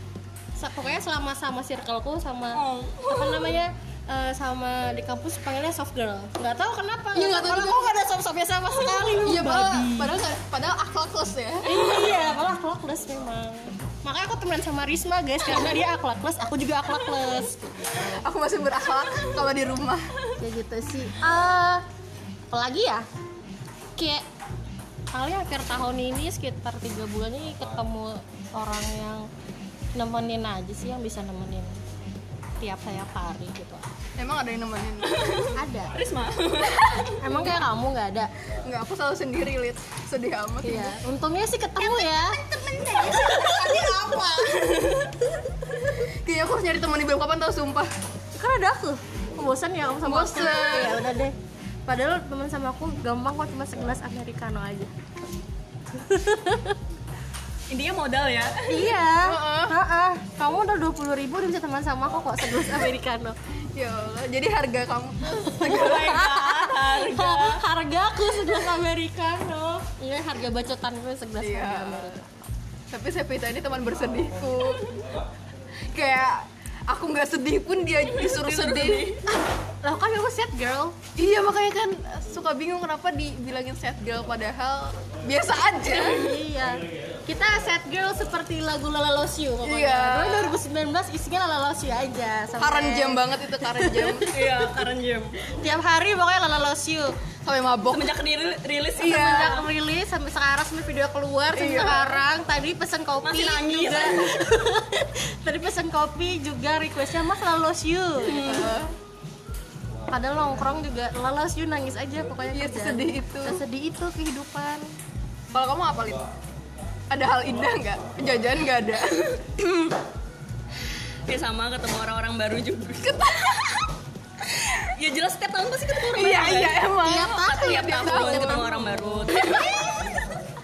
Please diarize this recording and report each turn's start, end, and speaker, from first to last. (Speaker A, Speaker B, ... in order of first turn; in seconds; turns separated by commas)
Speaker A: 0.6-10.2, Speaker B: 2.5-3.6, Speaker C: 7.1-8.0, Speaker C: 9.2-11.7, Speaker A: 11.7-17.7, Speaker B: 11.7-12.2, Speaker C: 18.0-20.1, Speaker A: 20.4-21.8, Speaker A: 22.5-23.1, Speaker A: 24.0-24.2, Speaker A: 25.1-29.3, Speaker A: 29.9-31.8, Speaker A: 32.6-33.9, Speaker C: 34.2-35.5, Speaker B: 35.1-37.2, Speaker A: 35.5-35.9, Speaker A: 37.2-38.3, Speaker C: 38.6-41.0, Speaker A: 40.6-44.6, Speaker B: 41.9-45.1, Speaker C: 46.0-47.9, Speaker A: 48.4-51.4, Speaker C: 50.0-51.2, Speaker A: 51.9-54.9, Speaker A: 55.9-56.8, Speaker B: 57.7-58.9, Speaker A: 58.7-63.4, Speaker C: 59.1-59.8, Speaker C: 63.8-66.2, Speaker A: 65.3-72.3, Speaker B: 65.6-67.6, Speaker C: 71.4-72.2, Speaker C: 72.9-75.0, Speaker C: 75.9-79.1, Speaker B: 78.0-79.2, Speaker A: 79.8-81.0, Speaker C: 81.2-86.3, Speaker A: 85.8-94.3, Speaker C: 89.6-90.6, Speaker C: 92.6-94.4, Speaker B: 94.3-95.3, Speaker A: 95.6-97.2, Speaker C: 97.4-98.1, Speaker B: 97.9-99.7, Speaker C: 99.0-99.6, Speaker A: 99.0-108.8, Speaker C: 101.5-102.2, Speaker B: 103.2-104.3, Speaker B: 108.2-108.8, Speaker C: 108.4-108.9, Speaker A: 110.1-114.9, Speaker C: 112.5-113.6, Speaker C: 115.5-116.2, Speaker C: 117.1-119.9, Speaker B: 121.3-123.5, Speaker C: 123.0-123.8, Speaker B: 124.5-130.0, Speaker C: 126.1-128.7, Speaker A: 127.0-129.9